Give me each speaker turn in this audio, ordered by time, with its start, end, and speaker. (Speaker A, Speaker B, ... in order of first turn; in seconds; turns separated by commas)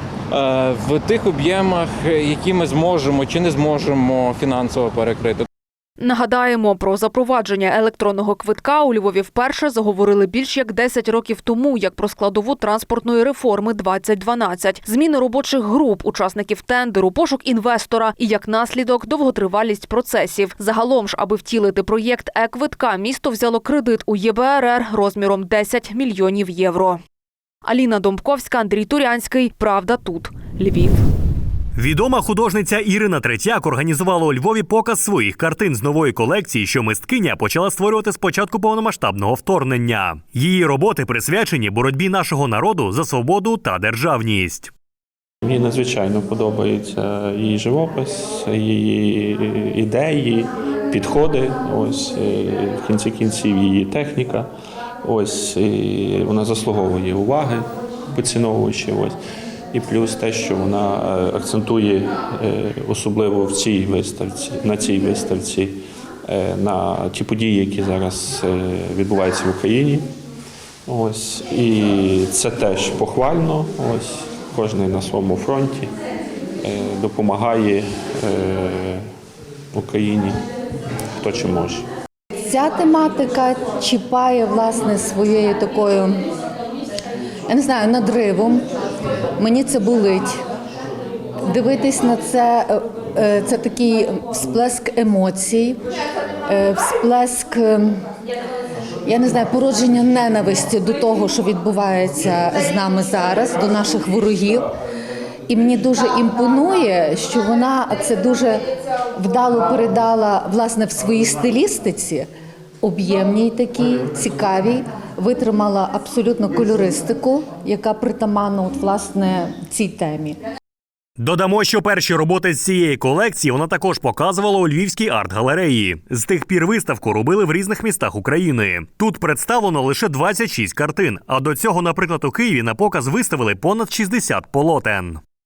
Speaker A: 0.3-5.5, Speaker B: 6.0-27.0, Speaker B: 27.6-31.1, Speaker C: 31.8-44.7, Speaker D: 45.4-54.5, Speaker D: 55.0-59.2, Speaker D: 59.7-70.0, Speaker D: 70.9-75.9, Speaker D: 76.6-79.0, Speaker D: 79.7-80.4, Speaker D: 81.2-81.8, Speaker E: 82.5-86.2, Speaker E: 87.5-88.6, Speaker E: 89.4-90.3, Speaker E: 91.5-95.8, Speaker E: 96.5-98.0, Speaker E: 99.0-104.7, Speaker E: 105.5-108.6, Speaker E: 109.2-112.3, Speaker E: 112.8-120.4, Speaker C: 121.2-135.2